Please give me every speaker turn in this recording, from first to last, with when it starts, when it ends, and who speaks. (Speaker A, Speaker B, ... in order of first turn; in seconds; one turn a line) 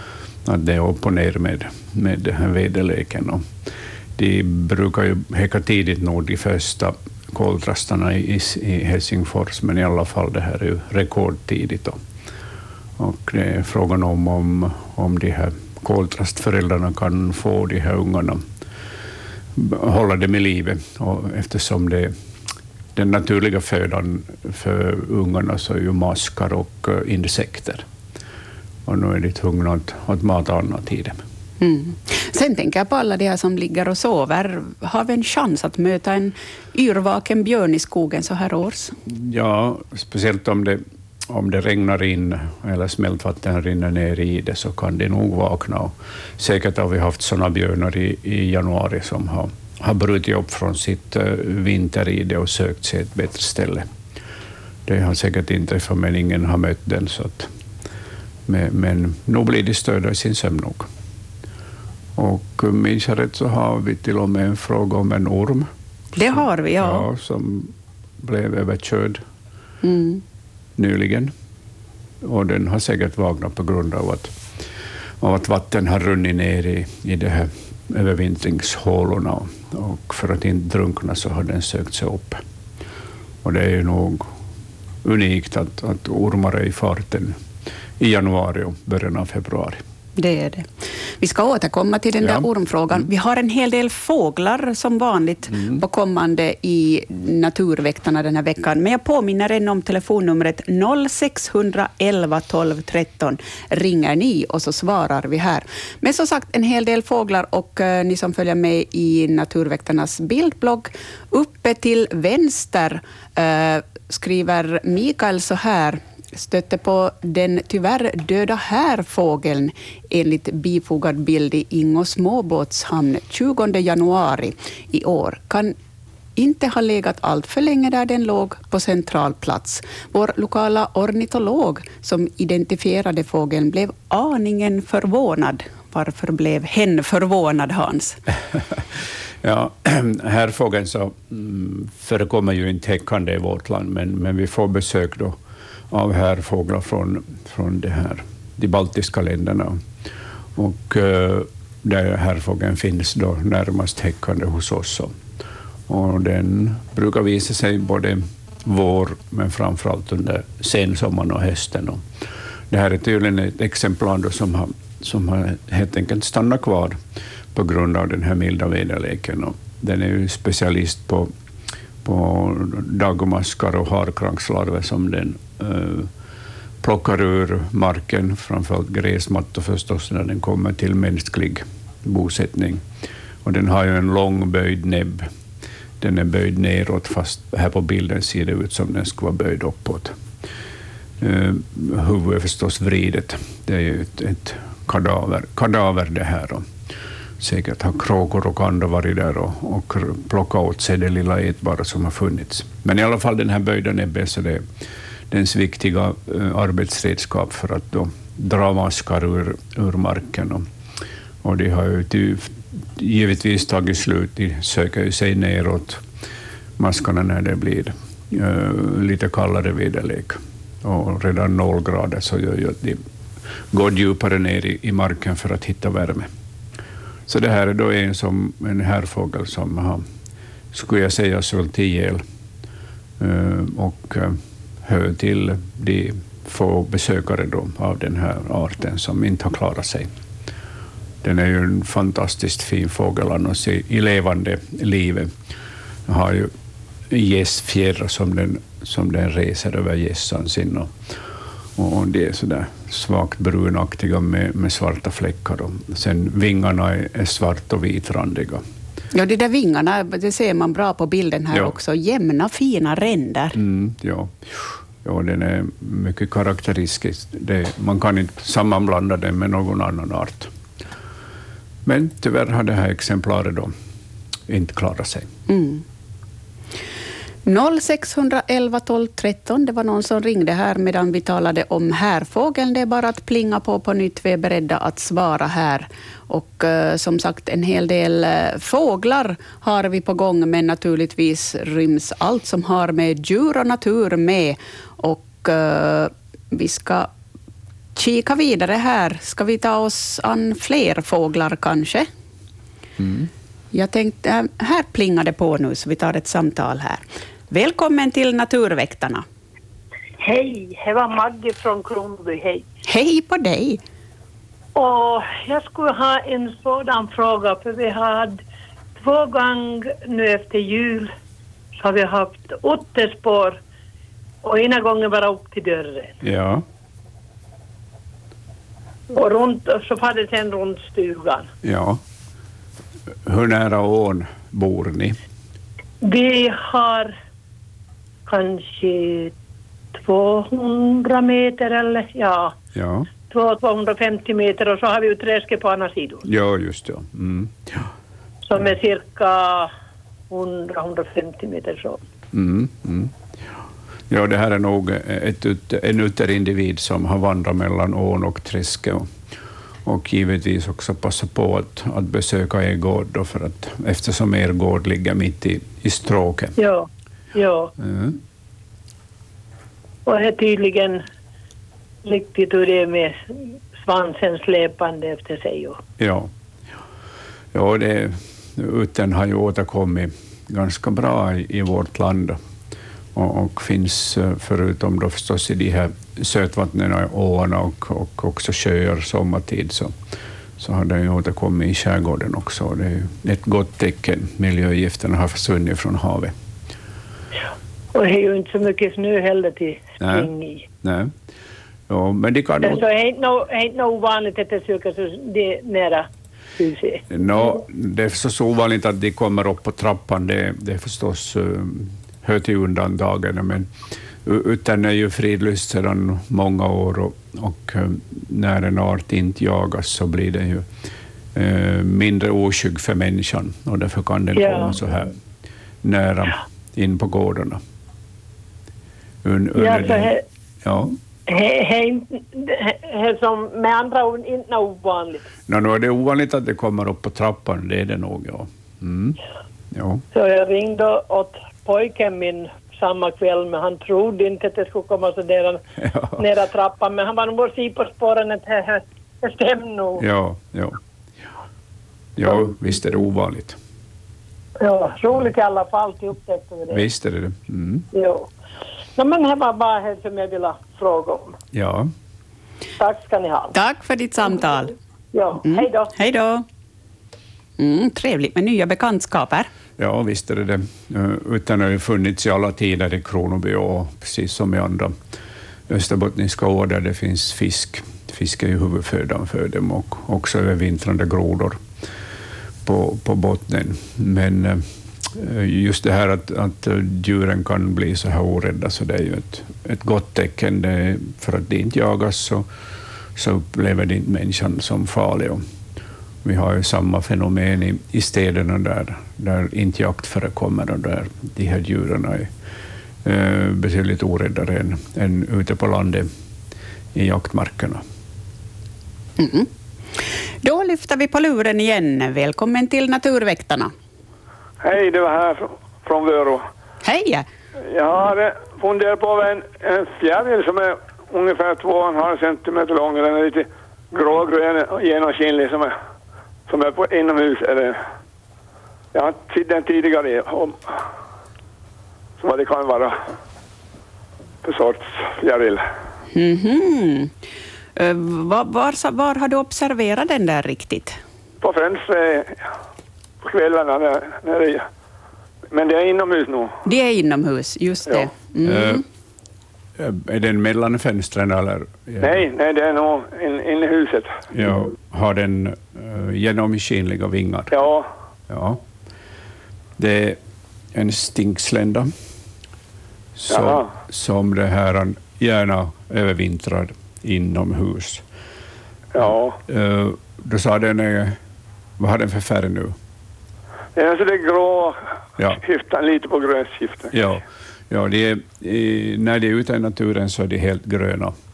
Speaker A: 0.5-3.4
Speaker A: 4.2-12.0
Speaker A: 13.0-18.4
Speaker A: 19.6-22.1
Speaker A: 23.0-27.9
Speaker A: 28.9-31.2
Speaker B: 31.6-39.0
Speaker A: 39.1-53.9
Speaker A: 54.9-57.5
Speaker A: 58.5-60.9
Speaker A: 62.2-65.7
Speaker B: 66.2-67.1
Speaker A: 66.3-69.2
Speaker B: 69.8-70.2
Speaker A: 70.8-71.3
Speaker A: 72.2-74.3
Speaker A: 75.2-82.4
Speaker A: 83.4-84.3
Speaker A: 85.0-87.4
Speaker A: 88.0-89.8
Speaker B: 90.2-90.7
Speaker B: 91.2-125.7
Speaker A: 92.2-93.1
Speaker A: 95.5-95.8
Speaker B: 126.4-138.2
Speaker A: 138.5-145.4
Speaker A: 145.9-149.8
Speaker A: 150.6-155.2
Speaker A: 155.9-162.0
Speaker A: 162.7-167.0
Speaker A: 167.5-171.3
Speaker A: 172.0-176.1
Speaker A: 176.8-182.8
Speaker A: 183.4-185.3
Speaker A: 186.0-190.2
Speaker A: 191.2-196.7
Speaker A: 197.4-204.6
Speaker A: 205.3-210.7
Speaker A: 211.4-216.0
Speaker A: 216.8-223.0
Speaker A: 223.7-226.3
Speaker A: 227.3-230.0
Speaker A: 230.7-232.2
Speaker A: 233.2-240.1
Speaker A: 241.2-245.3
Speaker A: 246.1-246.5
Speaker A: 247.1-250.9
Speaker A: 251.8-258.6
Speaker B: 259.1-263.6
Speaker A: 263.5-270.5
Speaker A: 271.9-273.7
Speaker A: 274.5-275.3
Speaker B: 275.5-275.8
Speaker B: 277.5-297.1
Speaker B: 298.0-302.1
Speaker A: 303.0-303.3
Speaker B: 303.7-309.2
Speaker C: 310.2-312.6
Speaker B: 312.9-313.8
Speaker C: 314.8-318.4
Speaker C: 319.0-321.1
Speaker C: 321.8-323.6
Speaker C: 324.4-326.1
Speaker A: 326.2-326.6
Speaker C: 329.1-331.5
Speaker A: 331.6-332.0
Speaker A: 333.2-335.2
Speaker C: 336.0-337.1
Speaker C: 338.3-339.3
Speaker C: 339.9-342.6
Speaker A: 342.7-343.1
Speaker C: 343.3-346.2
Speaker A: 346.2-347.9
Speaker C: 348.4-349.7
Speaker C: 350.3-352.0
Speaker A: 352.3-353.1
Speaker A: 354.1-359.1
Speaker A: 359.9-366.6
Speaker C: 366.6-367.7
Speaker A: 367.8-368.2
Speaker C: 370.1-371.0
Speaker C: 372.0-373.2
Speaker C: 373.8-375.8
Speaker A: 376.0-376.3
Speaker A: 377.5-382.4
Speaker A: 383.1-389.9
Speaker A: 390.6-396.3
Speaker C: 397.9-400.7
Speaker A: 400.0-400.3
Speaker A: 400.8-401.1
Speaker A: 401.9-402.8
Speaker C: 402.6-406.1
Speaker C: 406.6-407.0
Speaker A: 407.1-413.7
Speaker A: 414.2-420.7
Speaker A: 421.3-425.1
Speaker C: 424.3-424.8
Speaker A: 425.8-427.6
Speaker A: 429.2-430.9
Speaker C: 429.6-430.2
Speaker C: 431.3-435.3
Speaker A: 435.5-439.2
Speaker A: 439.7-440.0
Speaker C: 440.1-445.6
Speaker A: 445.8-446.3
Speaker C: 446.2-450.0
Speaker A: 450.0-450.8
Speaker A: 452.2-453.6
Speaker C: 454.6-456.8
Speaker A: 456.7-457.9
Speaker C: 457.9-458.3
Speaker C: 459.0-461.4
Speaker A: 461.5-461.9
Speaker C: 462.8-463.6
Speaker B: 463.5-464.7
Speaker C: 465.1-465.9
Speaker B: 465.4-466.4
Speaker B: 467.6-469.5
Speaker A: 469.8-474.9
Speaker A: 475.7-481.6
Speaker A: 482.6-492.5
Speaker A: 493.2-495.4
Speaker A: 496.2-502.3
Speaker A: 503.0-506.1
Speaker A: 506.9-507.8
Speaker B: 509.2-509.5
Speaker B: 510.4-513.7
Speaker D: 514.6-516.5
Speaker B: 516.8-517.2
Speaker D: 517.7-525.7
Speaker D: 526.5-527.8
Speaker D: 528.9-530.8
Speaker D: 532.2-533.0
Speaker D: 534.4-535.6
Speaker B: 536.1-537.1
Speaker B: 537.8-541.0
Speaker D: 541.4-542.5
Speaker D: 543.2-544.7
Speaker D: 545.5-546.5
Speaker B: 546.6-548.8
Speaker A: 548.5-548.8
Speaker A: 549.8-552.3
Speaker D: 552.0-554.2
Speaker A: 554.3-557.6
Speaker D: 557.5-557.9
Speaker A: 558.3-558.6
Speaker A: 559.8-560.2
Speaker A: 560.7-561.9
Speaker A: 563.2-568.0
Speaker D: 563.3-563.7
Speaker D: 568.9-569.4
Speaker A: 569.0-571.2
Speaker A: 571.8-572.8
Speaker D: 573.8-574.8
Speaker D: 575.4-576.9
Speaker A: 576.9-581.1